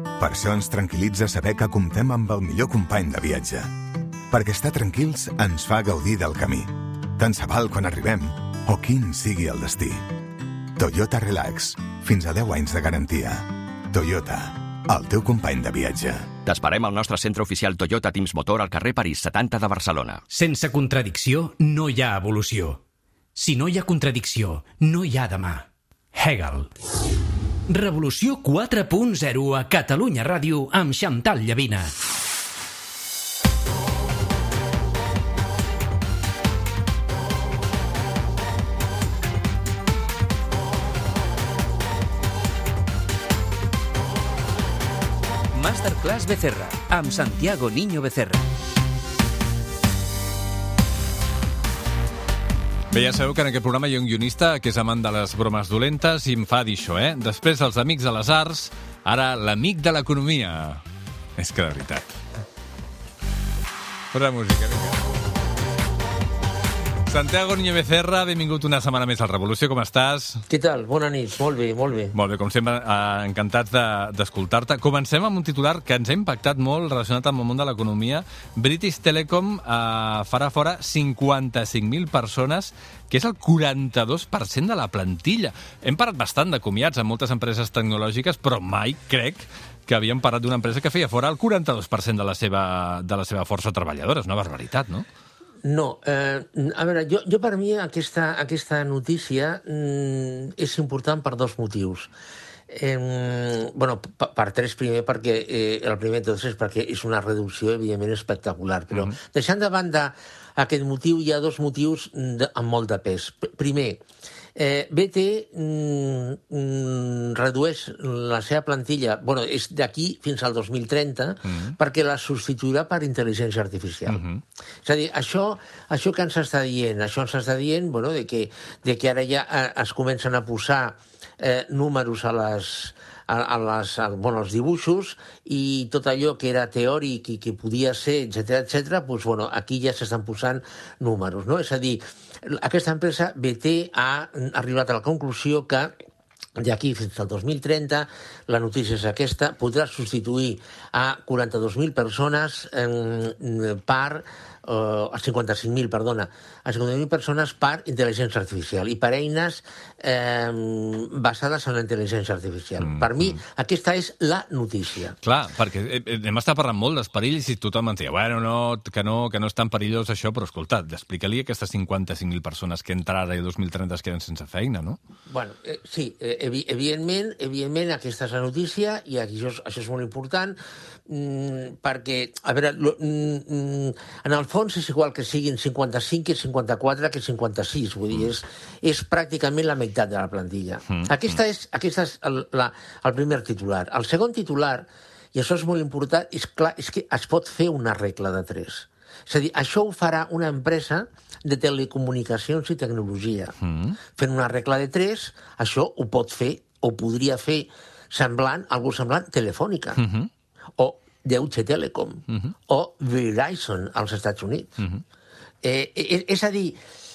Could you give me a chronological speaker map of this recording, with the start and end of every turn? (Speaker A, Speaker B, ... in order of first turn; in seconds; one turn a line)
Speaker A: 0.2-3.7
Speaker A: 4.3-10.0
Speaker A: 10.8-16.3
Speaker B: 16.4-20.2
Speaker C: 20.3-22.8
Speaker C: 23.4-26.7
Speaker C: 27.7-31.9
Speaker C: 45.5-48.5
Speaker D: 52.9-60.8
Speaker D: 61.4-62.1
Speaker D: 64.1-65.0
Speaker D: 67.1-70.4
Speaker E: 70.5-72.2
Speaker D: 72.1-95.0
Speaker E: 95.6-102.1
Speaker E: 102.7-114.0
Speaker D: 108.9-109.2
Speaker E: 114.6-124.2
Speaker D: 121.5-121.7
Speaker D: 124.1-124.4
Speaker E: 124.8-145.9
Speaker E: 146.6-165.2
Speaker D: 162.8-163.4
Speaker D: 165.2-175.0
Speaker E: 175.3-203.6
Speaker D: 190.9-191.4
Speaker D: 203.6-204.0
Speaker E: 204.2-210.0
Speaker D: 210.0-210.3
Speaker E: 210.8-214.7
Speaker E: 215.6-216.8